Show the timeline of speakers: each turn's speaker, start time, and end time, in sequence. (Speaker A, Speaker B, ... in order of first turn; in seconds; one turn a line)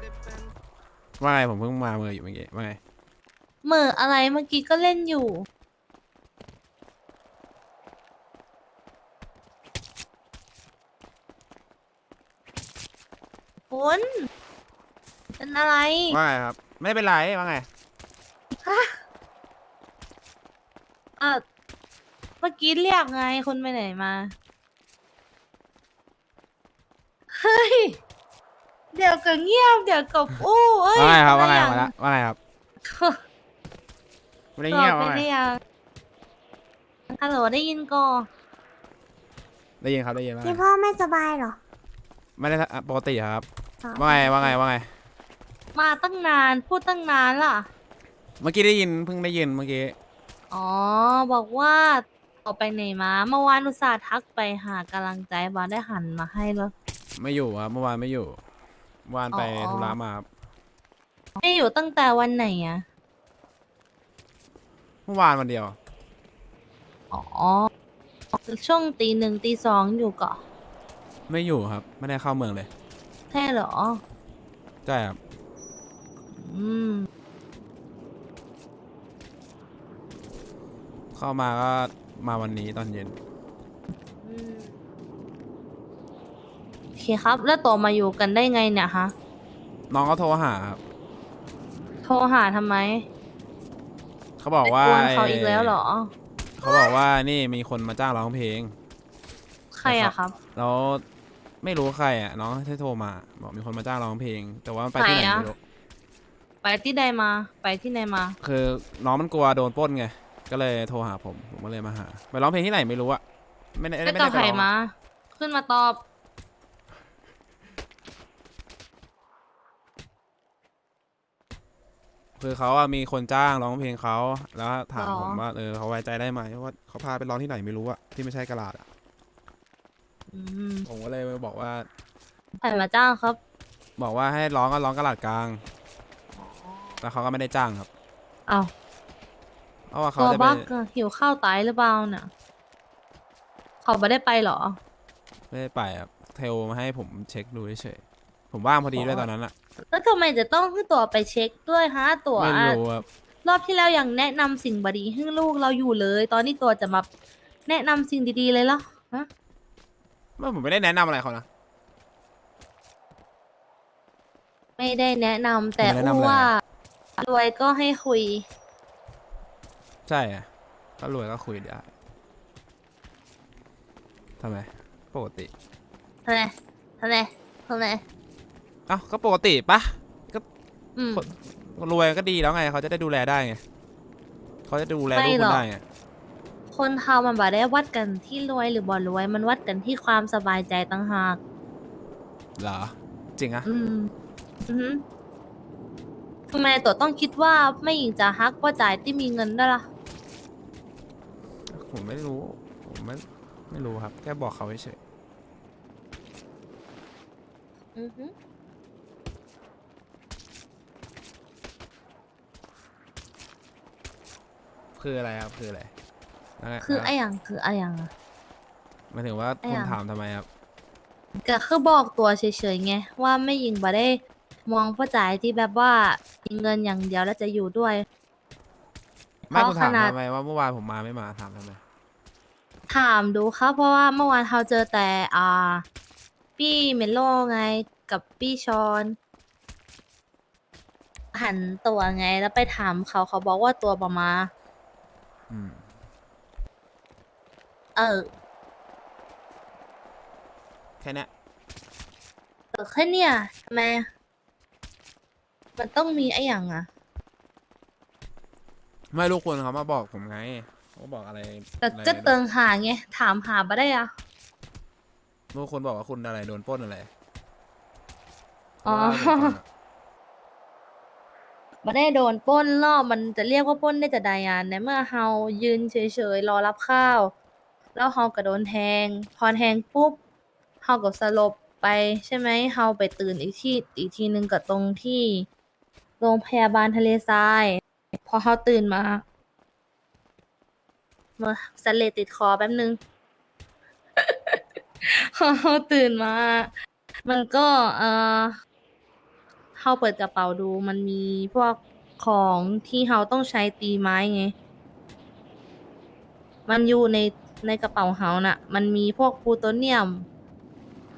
Speaker A: 1.2-2.8
Speaker B: 3.6-5.4
Speaker B: 13.7-14.0
Speaker B: 15.4-16.2
Speaker A: 16.1-17.7
Speaker B: 18.6-19.0
Speaker B: 22.4-24.3
Speaker B: 27.3-28.0
Speaker B: 28.9-31.9
Speaker A: 30.9-32.4
Speaker B: 32.8-33.2
Speaker A: 34.6-35.3
Speaker B: 34.7-35.6
Speaker B: 37.1-38.3
Speaker A: 39.8-40.6
Speaker C: 40.4-41.6
Speaker A: 42.4-44.9
Speaker C: 43.8-44.6
Speaker B: 45.7-47.7
Speaker A: 48.4-50.0
Speaker B: 50.5-56.7
Speaker A: 57.2-58.4
Speaker A: 59.0-60.2
Speaker B: 59.3-60.0
Speaker B: 61.4-62.8
Speaker A: 65.1-65.8
Speaker B: 67.1-67.7
Speaker B: 68.3-70.4
Speaker A: 71.3-72.7
Speaker B: 73.3-74.0
Speaker A: 74.8-75.2
Speaker B: 76.3-77.1
Speaker A: 81.1-83.2
Speaker B: 84.2-84.7
Speaker B: 87.0-89.1
Speaker A: 89.9-90.8
Speaker B: 92.0-93.0
Speaker A: 94.4-95.8
Speaker B: 94.6-96.1
Speaker A: 96.6-98.7
Speaker B: 99.7-100.3
Speaker A: 99.8-101.0
Speaker A: 101.6-105.6
Speaker B: 105.0-105.5
Speaker B: 106.6-108.3
Speaker A: 108.4-113.2
Speaker A: 113.7-114.7
Speaker B: 114.0-116.0
Speaker A: 122.4-128.8
Speaker B: 125.0-125.4
Speaker B: 130.3-130.9
Speaker A: 130.8-131.9
Speaker B: 132.6-133.4
Speaker A: 134.0-135.6
Speaker B: 136.4-137.0
Speaker A: 137.0-137.9
Speaker A: 139.9-140.7
Speaker B: 140.2-142.3
Speaker B: 143.8-144.8
Speaker A: 145.5-149.5
Speaker B: 148.9-149.3
Speaker B: 149.9-152.8
Speaker A: 152.3-153.1
Speaker B: 153.4-157.1
Speaker B: 157.7-159.3
Speaker A: 160.4-161.4
Speaker B: 164.8-166.6
Speaker A: 165.8-166.5
Speaker B: 167.2-168.4
Speaker A: 170.1-170.5
Speaker A: 171.0-171.9
Speaker A: 174.4-175.5
Speaker B: 176.2-178.0
Speaker A: 178.9-180.4
Speaker B: 180.9-181.2
Speaker A: 181.1-183.6
Speaker A: 184.7-185.8
Speaker B: 185.1-185.7
Speaker B: 186.7-191.4
Speaker A: 192.6-193.7
Speaker B: 193.6-194.1
Speaker B: 194.7-195.0
Speaker B: 196.5-199.8
Speaker A: 201.7-205.0
Speaker B: 207.9-208.3
Speaker A: 215.0-215.9
Speaker A: 216.6-217.1
Speaker B: 216.8-218.1
Speaker A: 219.1-220.4
Speaker B: 219.6-220.0
Speaker B: 221.4-228.0
Speaker B: 229.5-230.1
Speaker A: 229.5-231.8
Speaker B: 232.9-235.8
Speaker B: 236.6-239.1
Speaker B: 241.3-244.5
Speaker A: 245.5-245.8
Speaker B: 247.9-248.3
Speaker A: 251.0-251.3
Speaker B: 252.7-254.1
Speaker B: 255.8-256.9
Speaker A: 259.1-262.4
Speaker B: 261.8-264.1
Speaker A: 265.5-267.1
Speaker A: 268.8-269.6
Speaker B: 268.8-269.6
Speaker B: 271.8-277.3
Speaker B: 277.9-280.2
Speaker B: 280.8-285.5
Speaker B: 286.2-289.2
Speaker B: 291.4-293.0
Speaker B: 294.2-296.7
Speaker B: 297.2-298.5
Speaker B: 299.8-304.5
Speaker B: 306.7-310.3